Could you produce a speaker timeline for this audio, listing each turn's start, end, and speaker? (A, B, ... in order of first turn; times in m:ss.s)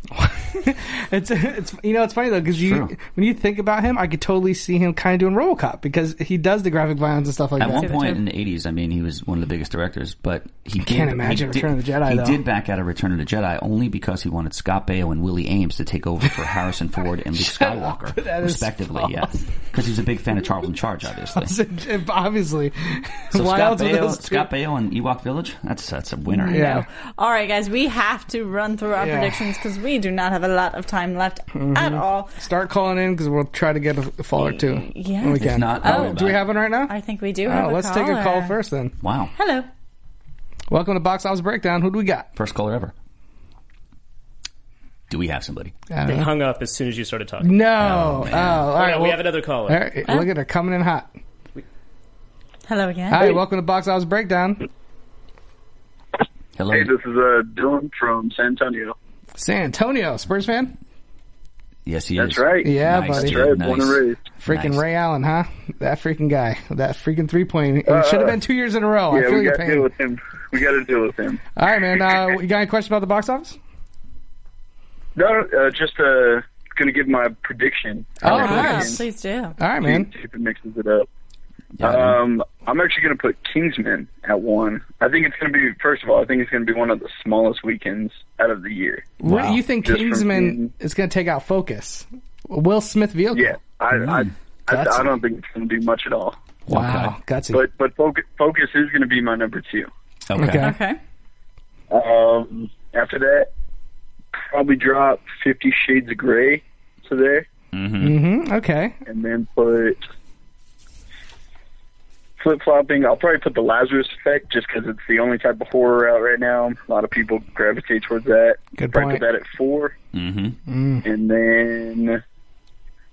0:00.1-0:08.0 A
0:02.6-0:02.9 B
0:07.6-0:21.5 B
0:07.7-0:08.2 C
0:10.8-0:12.4 A
0:17.4-0:19.3 A
0:21.3-0:24.5 A
0:23.3-0:26.8 B
0:26.3-0:32.4 C
0:26.5-0:26.8 A
0:29.0-0:29.4 A
0:31.6-0:36.9 A
0:34.4-0:38.6 C
0:35.4-0:36.4 B
0:37.4-0:39.0 A
0:39.0-0:39.3 B
0:39.4-0:39.7 C
0:40.7-0:42.3 A
0:42.4-0:42.9 B
0:45.1-0:45.8 B
0:45.9-0:46.3 A
0:46.0-0:47.6 D
0:47.4-0:51.1 A
0:47.8-0:48.7 B
0:48.6-0:49.9 D
0:50.0-0:50.3 C
0:52.7-0:53.4 C
0:53.1-0:54.7 A
0:56.6-0:56.9 B
0:56.7-0:59.0 E
0:59.4-1:00.7 A
1:01.9-1:04.8 B
1:02.2-1:04.2 E
1:02.6-1:03.4 A
1:04.4-1:09.9 A
1:07.8-1:08.4 E
1:09.1-1:11.4 E
1:11.6-1:13.6 A
1:15.2-1:19.0 E
1:18.2-1:19.0 A
1:18.3-1:19.6 C
1:19.6-1:20.1 A
1:19.8-1:21.1 E
1:21.8-1:22.2 B
1:21.8-1:29.2 E
1:29.2-1:33.6 A
1:29.2-1:29.6 B
1:29.8-1:30.7 E
1:33.3-1:36.4 E
1:33.9-1:34.3 B
1:34.7-1:35.2 A
1:36.7-1:37.1 B
1:36.7-1:37.6 A
1:37.5-1:39.9 E
1:40.3-1:40.8 B
1:40.4-1:40.8 A
1:40.6-1:41.0 C
1:41.9-1:43.5 E
1:44.4-1:47.5 E
1:47.7-1:48.2 B
1:48.0-1:49.0 A
1:49.1-1:50.0 E
1:52.4-1:59.9 E
1:58.8-1:59.2 A
2:00.1-2:00.6 B
2:00.7-2:01.0 A
2:01.0-2:02.2 E